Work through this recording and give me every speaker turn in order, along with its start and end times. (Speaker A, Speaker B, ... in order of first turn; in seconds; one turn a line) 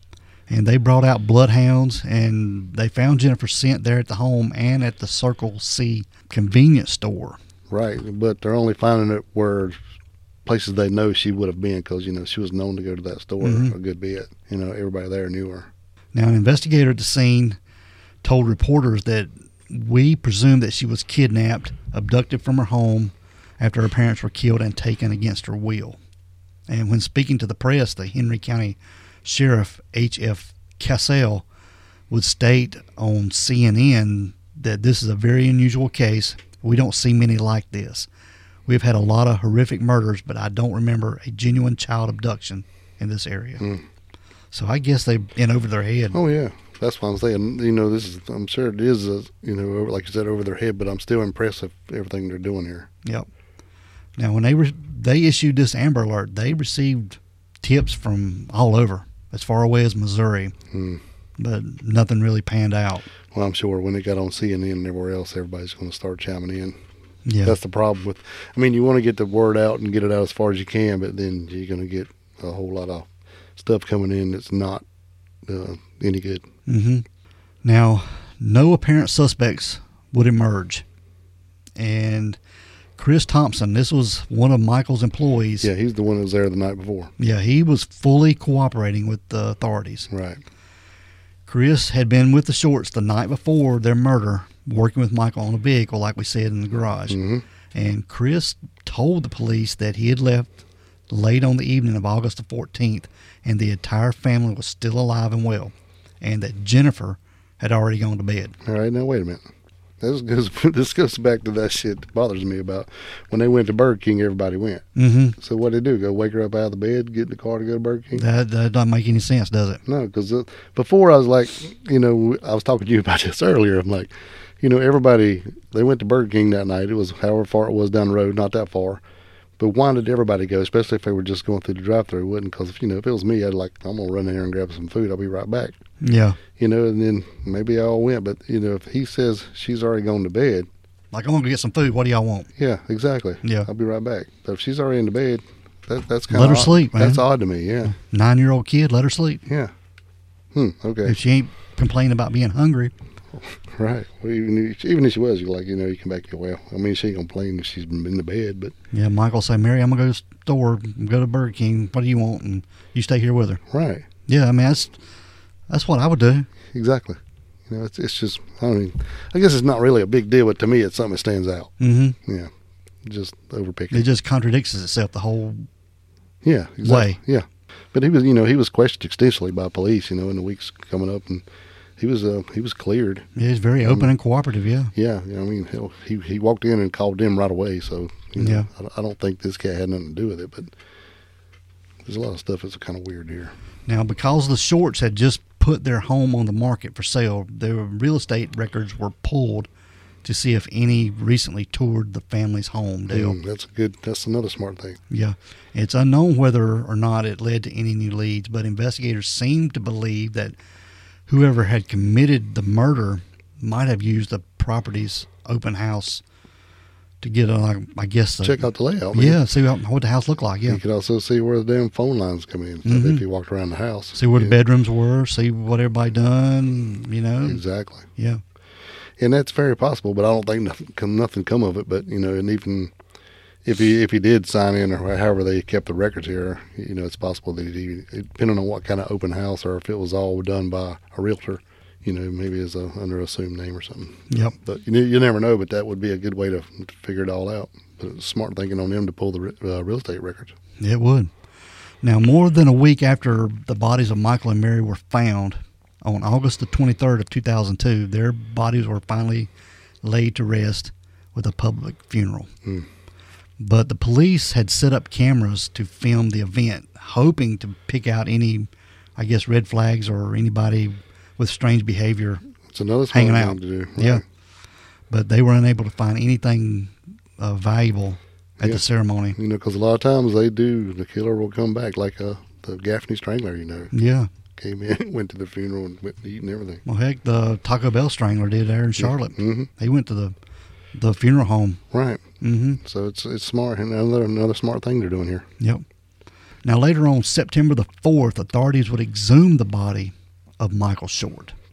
Speaker A: 0.5-7.4
Speaker B: 7.7-9.8
Speaker B: 10.4-15.7
Speaker A: 13.4-13.7
Speaker A: 16.1-17.6
Speaker A: 18.2-26.0
Speaker A: 26.7-31.4
Speaker A: 32.1-38.1
Speaker A: 38.7-43.6
Speaker A: 44.5-46.2
Speaker B: 46.1-52.9
Speaker A: 54.2-60.5
Speaker B: 60.7-61.0
Speaker A: 61.4-63.0
Speaker B: 63.3-66.8
Speaker A: 67.2-67.5
Speaker B: 67.4-74.8
Speaker B: 75.4-76.5
Speaker A: 76.7-77.0
Speaker A: 77.6-80.8
Speaker A: 81.8-82.4
Speaker A: 83.0-85.7
Speaker B: 85.6-87.1
Speaker A: 87.2-90.1
Speaker B: 90.1-90.4
Speaker A: 91.5-97.2
Speaker B: 97.1-97.4
Speaker A: 97.7-108.5
Speaker B: 108.6-109.4
Speaker B: 110.0-118.2
Speaker A: 115.0-115.3
Speaker A: 118.2-119.8
Speaker B: 119.8-129.0
Speaker B: 129.6-135.7
Speaker A: 136.0-136.4
Speaker B: 136.6-140.7
Speaker A: 141.1-142.5
Speaker B: 142.6-147.9
Speaker A: 143.4-143.7
Speaker A: 146.3-147.2
Speaker A: 147.9-149.4
Speaker B: 149.4-149.7
Speaker B: 150.5-151.2
Speaker A: 151.0-152.9
Speaker B: 153.3-158.7
Speaker A: 158.9-163.6
Speaker B: 163.7-164.1
Speaker A: 164.3-164.9
Speaker A: 165.7-166.5
Speaker B: 166.7-172.5
Speaker A: 171.8-172.2
Speaker B: 173.0-174.1
Speaker A: 173.9-175.7
Speaker B: 176.4-181.4
Speaker A: 176.8-177.2
Speaker B: 182.0-183.2
Speaker A: 183.3-184.9
Speaker B: 184.9-190.7
Speaker A: 188.4-188.7
Speaker B: 192.1-193.5
Speaker A: 193.9-199.7
Speaker A: 200.2-203.4
Speaker B: 203.1-205.0
Speaker A: 205.1-210.5
Speaker A: 211.3-216.2
Speaker A: 217.2-220.8
Speaker B: 218.4-219.4
Speaker B: 220.7-224.6
Speaker A: 222.8-223.2
Speaker A: 224.1-227.6
Speaker B: 227.4-228.1
Speaker A: 228.2-228.4
Speaker B: 229.2-232.9
Speaker B: 233.6-250.5
Speaker A: 244.3-244.5
Speaker A: 250.8-251.3
Speaker A: 252.0-259.5
Speaker A: 260.0-262.5
Speaker A: 263.6-272.4
Speaker B: 272.7-274.2
Speaker A: 273.1-274.2
Speaker A: 275.1-279.4
Speaker B: 279.4-283.9
Speaker A: 283.9-284.3
Speaker B: 284.6-286.8
Speaker A: 286.8-290.3
Speaker B: 289.0-289.7
Speaker A: 290.9-291.8
Speaker B: 291.9-292.2
Speaker A: 292.4-292.8
Speaker B: 292.8-295.5
Speaker A: 296.6-301.5